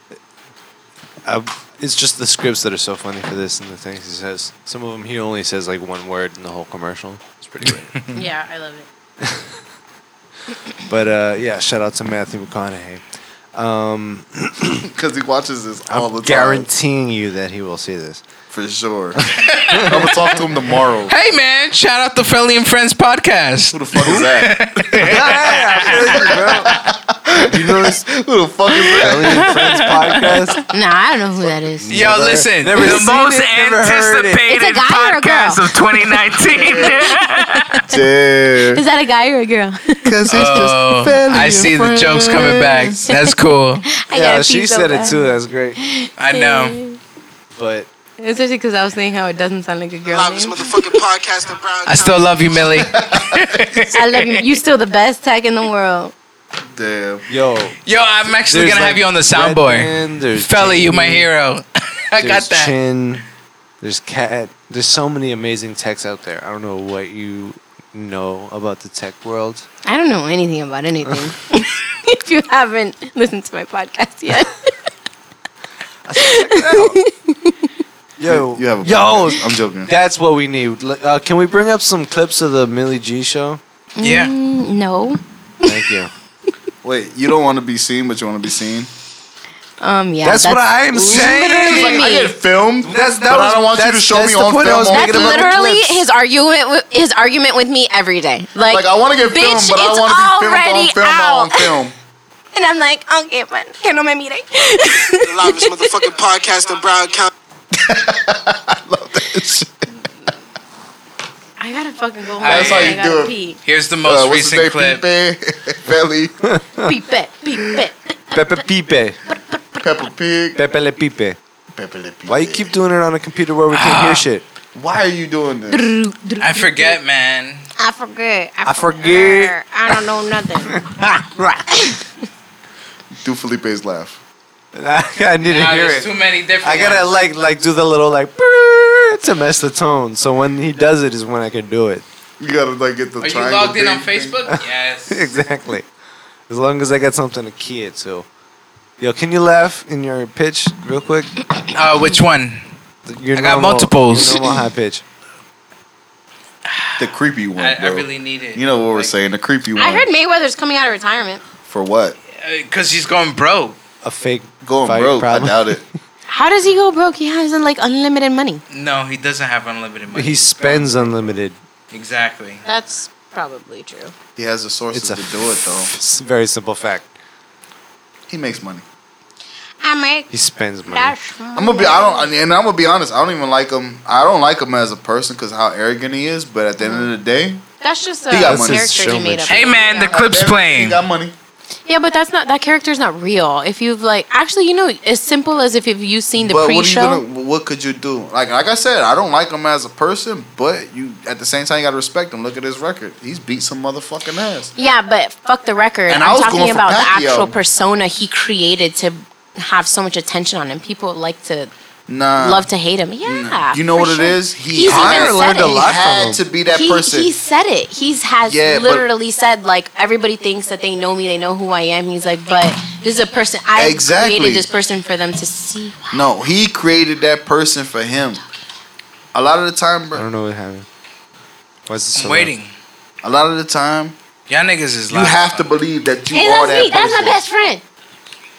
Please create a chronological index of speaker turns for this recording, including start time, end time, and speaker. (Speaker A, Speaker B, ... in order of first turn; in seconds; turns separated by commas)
Speaker A: 1.2-8.0, Speaker B: 8.1-8.9, Speaker A: 9.2-9.5, Speaker A: 10.9-13.0, Speaker A: 13.5-14.9, Speaker C: 14.9-16.7, Speaker A: 15.9-18.2, Speaker C: 18.5-21.1, Speaker A: 19.2-20.6, Speaker D: 19.4-20.0, Speaker D: 21.1-26.3, Speaker C: 23.7-29.6, Speaker A: 25.0-26.8, Speaker A: 27.4-28.0, Speaker D: 28.8-30.6, Speaker A: 29.0-30.6, Speaker B: 30.7-32.0, Speaker A: 31.8-34.4, Speaker D: 31.9-37.8, Speaker B: 34.5-35.6, Speaker C: 36.6-36.9, Speaker B: 36.6-38.0, Speaker C: 37.9-38.8, Speaker B: 38.7-40.6, Speaker C: 40.0-43.0, Speaker D: 40.3-43.8, Speaker B: 43.0-45.2, Speaker A: 44.1-45.8, Speaker B: 45.8-47.0, Speaker D: 46.2-46.8, Speaker A: 47.5-47.9, Speaker B: 48.2-51.0, Speaker E: 50.0-52.6, Speaker D: 51.9-54.4, Speaker C: 52.8-53.4, Speaker B: 53.9-56.1, Speaker C: 56.7-57.2, Speaker A: 57.3-57.8, Speaker D: 57.8-62.7, Speaker A: 58.5-61.3, Speaker A: 62.2-63.2, Speaker A: 63.8-69.6, Speaker B: 69.8-74.7, Speaker A: 76.0-77.0, Speaker B: 76.2-77.7, Speaker A: 78.2-83.6, Speaker C: 78.3-79.9, Speaker B: 84.0-85.8, Speaker D: 84.0-84.3, Speaker A: 85.6-86.1, Speaker C: 86.8-88.9, Speaker B: 89.8-92.3, Speaker A: 90.2-92.2, Speaker C: 91.6-95.5, Speaker A: 92.8-96.0, Speaker B: 94.9-101.8, Speaker C: 98.7-101.9, Speaker B: 102.5-105.9, Speaker E: 105.2-107.3, Speaker C: 107.7-109.8, Speaker B: 111.6-113.6, Speaker D: 112.4-113.0, Speaker C: 112.4-113.3, Speaker D: 113.6-115.0, Speaker C: 114.0-116.3, Speaker A: 116.5-116.9, Speaker B: 116.8-118.1, Speaker A: 118.3-119.2, Speaker B: 119.3-119.8, Speaker C: 119.8-120.6, Speaker A: 120.5-121.4, Speaker C: 121.8-122.7, Speaker A: 122.3-124.4, Speaker D: 123.7-124.2, Speaker C: 124.7-125.9, Speaker B: 125.7-127.0, Speaker D: 126.4-127.6, Speaker B: 127.8-132.1, Speaker A: 128.7-130.0, Speaker A: 130.7-131.6, Speaker C: 133.2-134.2, Speaker A: 134.7-142.0, Speaker D: 135.4-137.2, Speaker C: 142.4-144.3, Speaker D: 143.2-145.3, Speaker A: 144.5-145.8, Speaker A: 146.5-148.2, Speaker A: 149.0-151.3, Speaker D: 151.7-152.6, Speaker A: 153.1-155.0, Speaker D: 153.3-154.5, Speaker D: 156.7-157.0, Speaker C: 157.0-160.1, Speaker D: 157.6-159.1, Speaker B: 159.8-161.4, Speaker C: 161.7-162.2, Speaker D: 162.4-163.8, Speaker A: 164.0-165.8, Speaker C: 164.6-165.8, Speaker B: 166.3-168.6, Speaker D: 168.7-171.1, Speaker A: 170.1-171.6, Speaker D: 171.9-172.6, Speaker B: 172.6-174.1, Speaker C: 174.3-175.9, Speaker A: 174.9-177.1, Speaker C: 178.3-178.8, Speaker B: 179.8-180.3, Speaker A: 180.3-181.1, Speaker B: 180.9-182.3, Speaker C: 181.5-187.6, Speaker B: 186.8-187.1, Speaker B: 187.8-190.2, Speaker C: 188.3-189.2, Speaker A: 188.3-189.8, Speaker D: 189.5-191.0, Speaker C: 189.9-191.3, Speaker B: 191.8-197.2, Speaker C: 196.4-204.7, Speaker B: 204.8-211.7, Speaker C: 206.1-207.5, Speaker C: 212.1-212.7, Speaker B: 212.4-215.9, Speaker C: 213.2-217.3, Speaker A: 214.8-216.4, Speaker B: 216.7-226.2, Speaker C: 218.4-219.1, Speaker C: 223.8-224.7, Speaker C: 226.1-228.4, Speaker C: 229.3-230.2, Speaker A: 230.1-230.9, Speaker A: 231.9-232.5, Speaker D: 232.1-232.7, Speaker C: 233.2-234.1, Speaker D: 234.5-235.7, Speaker C: 235.1-237.4, Speaker B: 236.3-237.8